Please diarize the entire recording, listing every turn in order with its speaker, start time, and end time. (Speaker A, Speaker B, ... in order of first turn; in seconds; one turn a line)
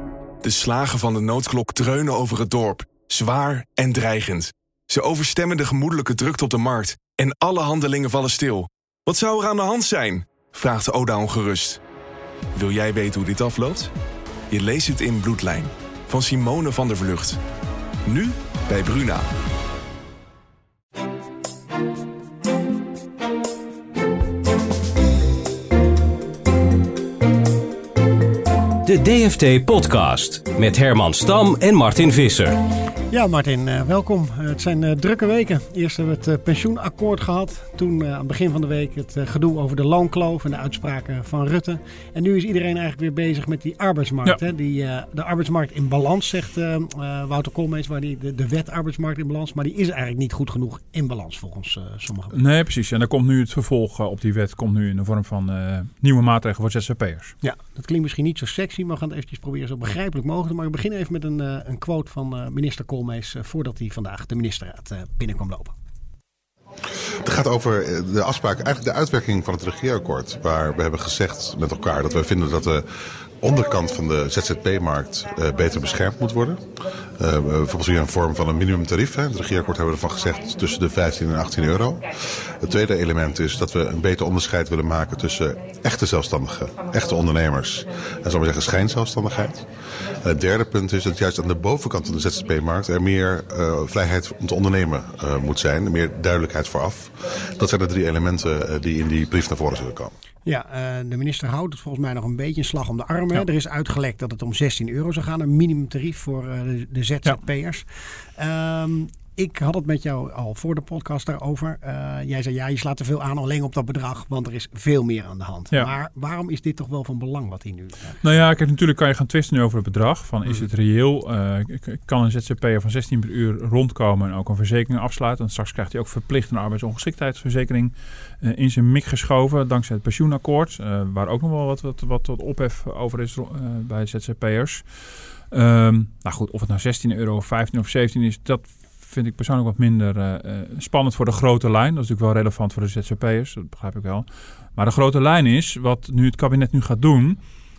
Speaker A: 0.4-11.8
Speaker A: 12.6-13.9
Speaker A: 14.5-17.4
Speaker A: 18.1-19.3
Speaker B: 28.8-32.6
Speaker C: 33.1-52.4
Speaker D: 52.3-57.4
Speaker C: 57.4-65.8
Speaker E: 67.2-72.8
Speaker E: 73.4-76.6
Speaker E: 77.2-89.7
Speaker E: 90.2-100.1
Speaker C: 100.5-118.2
Speaker D: 118.2-147.4